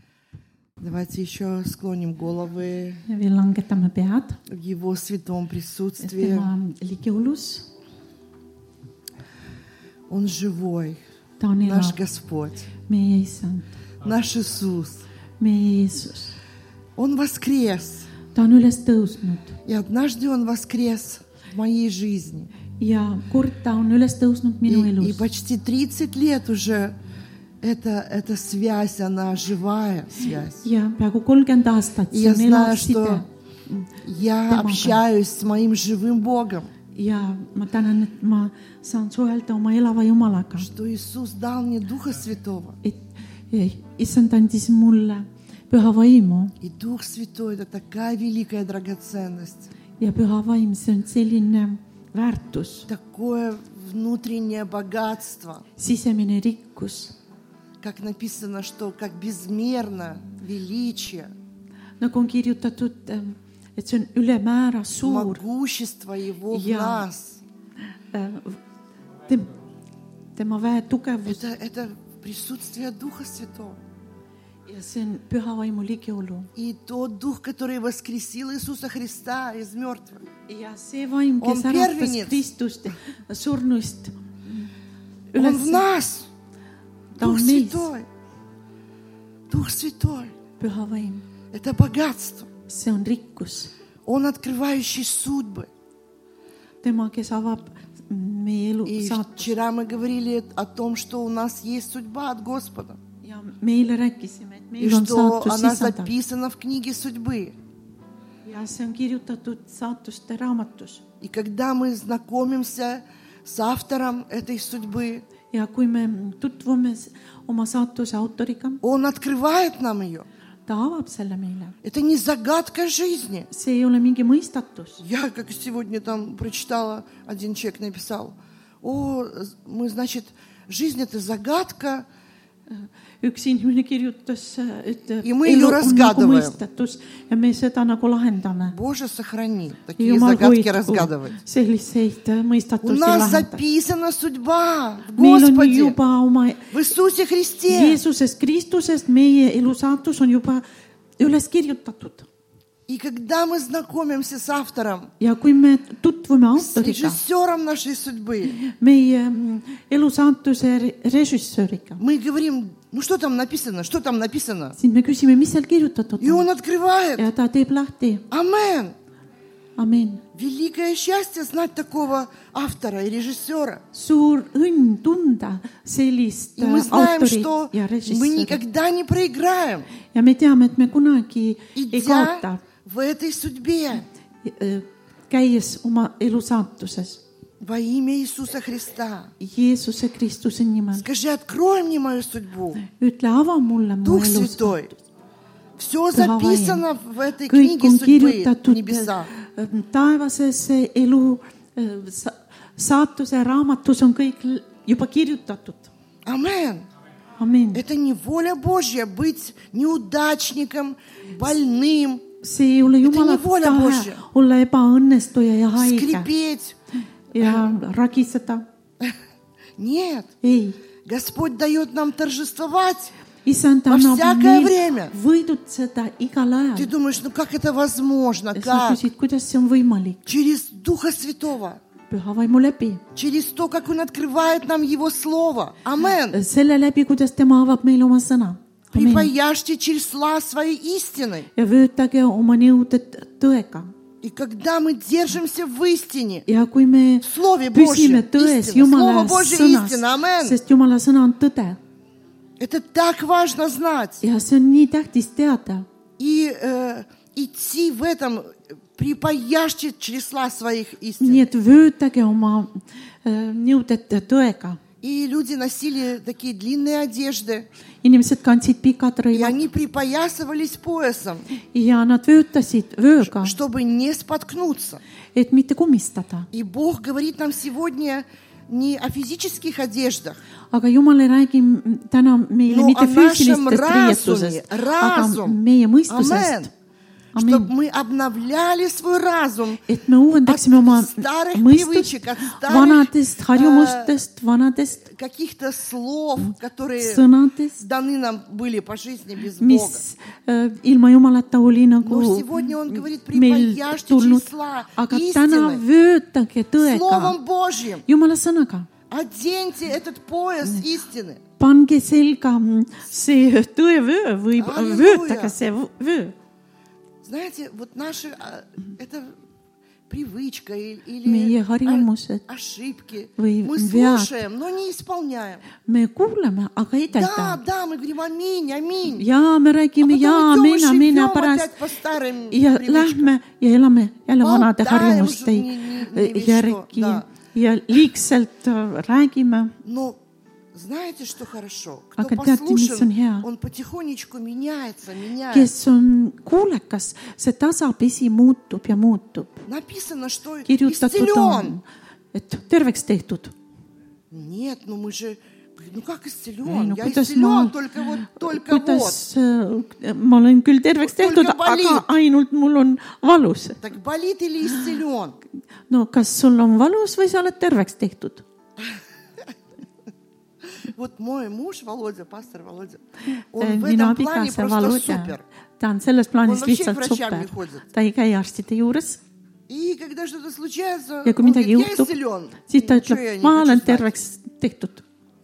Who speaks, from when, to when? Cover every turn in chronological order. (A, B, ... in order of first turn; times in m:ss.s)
0:00.8-0:03.0 A
0:03.1-0:04.4 B
0:04.5-0:06.5 A
0:06.0-0:07.7 B
0:10.1-0:11.0 A
0:11.4-0:12.0 B
0:11.6-0:12.7 A
0:12.9-0:13.8 B
0:14.0-0:15.1 A
0:15.4-0:16.4 B
0:17.0-0:18.1 A
0:18.3-0:19.6 B
0:19.6-0:22.5 A
0:22.8-0:25.2 B
0:24.7-0:26.9 A
0:27.6-0:30.6 A
0:30.6-0:33.9 B
0:32.1-0:33.2 A
0:34.0-0:36.7 A
0:34.5-0:35.0 B
0:36.9-0:40.7 B
0:40.6-0:42.8 A
0:42.8-0:46.5 B
0:46.6-0:49.7 A
0:50.0-0:52.9 B
0:52.9-0:55.7 A
0:55.8-0:57.1 B
0:57.8-1:01.3 A
1:02.0-1:05.4 B
1:05.0-1:07.4 A
1:06.5-1:07.0 B
1:08.1-1:08.6 B
1:09.2-1:09.5 B
1:10.4-1:11.4 B
1:11.3-1:13.8 A
1:14.6-1:16.5 B
1:16.6-1:20.2 A
1:20.5-1:24.7 B
1:21.4-1:22.4 A
1:25.3-1:25.9 B
1:25.4-1:26.3 A
1:27.1-1:27.9 B
1:27.2-1:28.1 A
1:29.5-1:30.3 A
1:30.6-1:31.2 B
1:31.5-1:32.5 A
1:32.7-1:33.7 B
1:34.1-1:35.7 A
1:36.8-1:39.5 B
1:38.8-1:43.0 A
1:43.2-1:46.1 B
1:44.8-1:47.6 A
1:48.4-1:51.0 B
1:51.2-1:55.2 A
1:55.5-1:58.8 B
1:58.8-2:00.3 A
2:00.7-2:01.7 B
2:01.8-2:03.5 A
2:03.5-2:05.0 B
2:05.0-2:12.0 A
2:12.7-2:18.7 B
2:15.2-2:16.6 A
2:18.6-2:21.4 A
2:20.0-2:23.6 B
2:22.8-2:26.0 A
2:25.2-2:26.7 B
2:26.7-2:28.0 A
2:27.7-2:30.6 B
2:31.2-2:32.3 B
2:32.9-2:35.1 A
2:35.2-2:37.2 B
2:36.5-2:38.6 A
2:38.6-2:42.0 B
2:42.0-2:44.8 A
2:44.8-2:46.5 B
2:46.2-2:47.2 A
2:47.2-2:48.2 B
2:48.3-2:48.9 A
2:49.8-2:50.2 B
2:50.3-2:53.8 A
2:53.9-2:58.6 B
2:56.6-2:59.9 A
3:00.1-3:02.6 B
3:01.7-3:04.1 A
3:04.4-3:07.2 B
3:07.6-3:09.3 A
3:09.4-3:11.0 B
3:10.9-3:12.8 A
3:12.8-3:15.0 B
3:14.0-3:14.9 A
3:15.8-3:19.3 A
3:16.1-3:16.8 B
3:17.4-3:25.9 B
3:26.2-3:26.8 A
3:27.4-3:27.8 B
3:27.7-3:32.2 A
3:32.4-3:36.3 B
3:33.0-3:34.2 A
3:35.8-3:36.8 A
3:37.3-3:38.6 B
3:37.4-3:37.7 A
3:39.8-3:40.3 A
3:40.4-3:40.8 B
3:41.0-3:43.1 A
3:43.4-3:46.9 B
3:43.9-3:45.1 A
3:46.8-3:49.0 A
3:48.5-3:50.3 B
3:50.3-3:51.8 A
3:52.1-3:53.0 B
3:53.1-3:56.4 A
3:56.3-3:59.3 B
3:58.9-4:01.5 A
4:01.6-4:03.9 B
4:04.2-4:06.4 A
4:06.4-4:11.8 B
4:07.2-4:10.6 A
4:12.6-4:14.2 A
4:14.2-4:15.8 B
4:16.2-4:21.5 A
4:21.2-4:24.8 B
4:25.0-4:27.7 A
4:28.0-4:29.6 B
4:29.3-4:31.4 A
4:31.7-4:33.6 B
4:33.2-4:35.0 A
4:35.3-4:36.5 B
4:36.5-4:40.4 A
4:40.7-4:46.7 B
4:42.7-4:46.7 A
4:47.3-4:49.8 A
4:47.3-4:47.7 B
4:49.9-4:55.0 B
4:50.4-4:54.2 A
4:55.0-4:57.2 A
4:57.0-4:57.8 B
4:57.8-5:00.0 A
4:59.6-5:07.4 B
5:02.0-5:05.8 A
5:06.8-5:08.0 A
5:08.0-5:08.9 B
5:09.1-5:11.4 A
5:11.6-5:16.3 B
5:14.6-5:15.5 A
5:17.2-5:19.3 A
5:20.1-5:25.6 A
5:21.2-5:22.4 B
5:23.4-5:24.3 B
5:25.8-5:27.6 B
5:27.1-5:29.2 A
5:29.1-5:31.7 B
5:30.0-5:33.3 A
5:32.5-5:39.7 B
5:34.4-5:37.3 A
5:39.8-5:40.2 A
5:40.7-5:45.7 A
5:42.2-5:43.4 B
5:45.5-5:49.6 B
5:49.6-5:51.8 A
5:50.6-5:53.5 B
5:54.3-5:59.2 A
5:56.6-5:57.7 B
5:58.3-6:03.8 B
6:01.0-6:02.1 A
6:03.8-6:05.4 A
6:05.9-6:08.4 B
6:10.8-6:13.0 A
6:13.5-6:15.4 A
6:13.6-6:19.2 B
6:16.4-6:17.8 A
6:19.7-6:24.1 A
6:21.2-6:22.1 B
6:22.7-6:25.0 B